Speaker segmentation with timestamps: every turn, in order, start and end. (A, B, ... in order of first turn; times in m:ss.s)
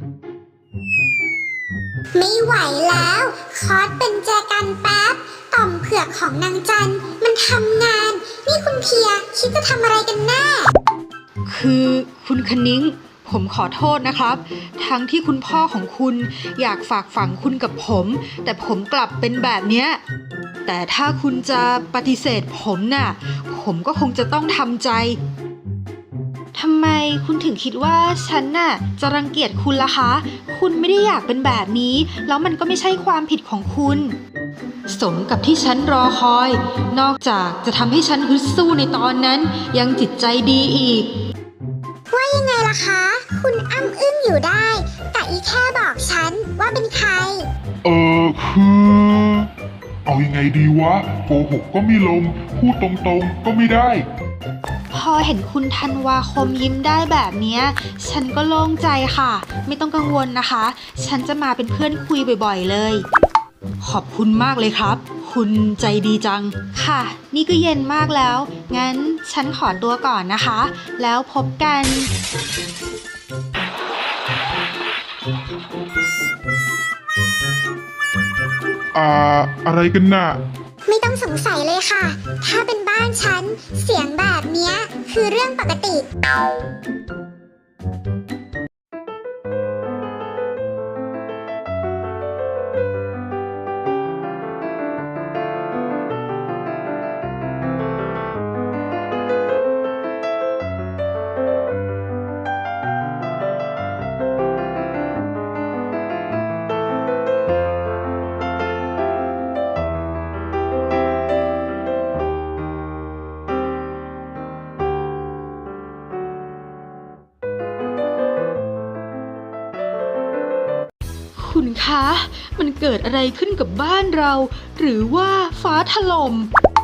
0:02.1-0:10.7 A
0:11.5-0:20.0 B
0:20.6-0:25.2 B
0:26.5-0:34.2 B
0:34.9-0:41.1 B
0:42.1-0:47.5 A
0:47.8-0:49.5 C
0:50.0-0:54.1 C
0:54.9-1:03.0 B
1:03.8-1:12.1 B
1:18.9-1:20.4 C
1:20.9-1:26.0 A
2:01.4-2:06.5 B